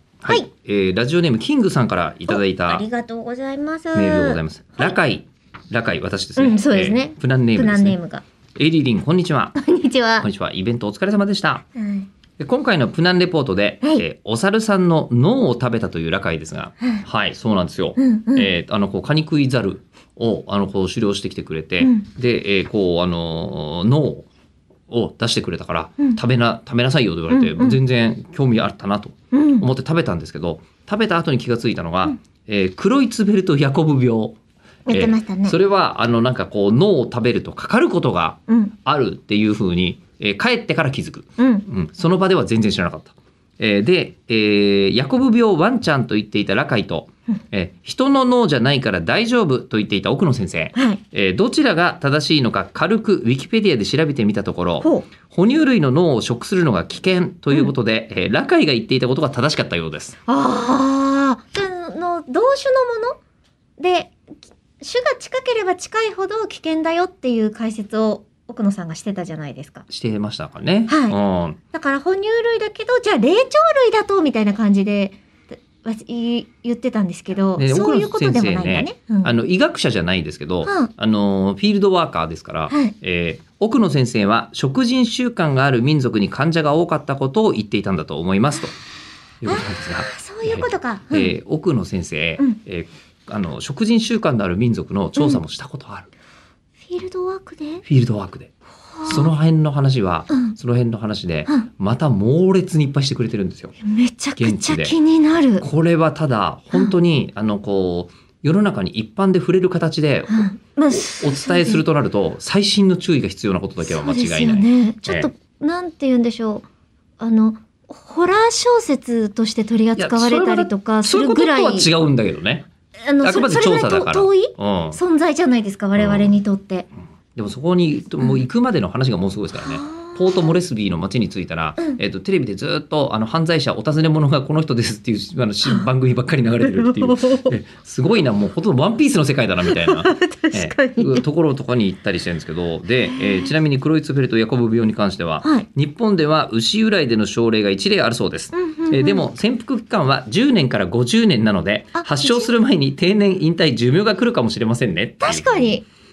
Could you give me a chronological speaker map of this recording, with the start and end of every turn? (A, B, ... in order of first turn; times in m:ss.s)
0:00.2-0:02.8 A
0:02.3-0:04.9 B
0:03.9-0:08.0 A
0:06.4-0:08.2 B
0:08.6-0:09.6 A
0:09.6-0:10.3 B
0:10.2-0:11.7 A
0:11.8-0:12.1 B
0:12.4-0:24.3 A
0:18.0-0:18.5 B
0:24.9-0:34.4 A
0:27.3-0:27.8 B
0:29.3-0:29.7 B
0:34.9-0:35.6 B
0:34.9-1:00.2 A
0:38.5-0:38.7 B
0:41.4-0:41.6 B
0:50.8-0:51.0 B
0:54.8-0:55.1 B
1:00.3-1:03.2 B
1:03.8-1:04.2 B
1:04.8-1:09.9 B
1:09.9-1:11.6 A
1:10.9-1:11.2 B
1:11.7-1:19.3 B
1:17.6-1:28.8 A
1:22.7-1:23.0 B
1:29.4-1:36.1 A
1:29.5-1:31.3 B
1:36.9-1:37.8 B
1:37.8-1:38.5 A
1:39.0-1:39.3 B
1:39.0-1:43.7 A
1:40.3-1:40.6 B
1:43.8-1:45.6 B
1:44.4-1:45.0 A
1:45.6-1:55.3 A
1:50.3-1:51.8 B
1:53.8-1:56.7 B
1:57.2-2:01.9 B
2:00.0-2:02.7 A
2:03.0-2:06.9 B
2:03.2-2:05.0 A
2:06.0-2:06.3 A
2:07.4-2:35.8 A
2:09.6-2:10.5 B
2:16.6-2:17.6 B
2:19.6-2:21.2 B
2:23.1-2:23.5 B
2:25.4-2:25.7 B
2:28.5-2:29.3 B
2:32.0-2:32.5 B
2:35.2-2:35.8 B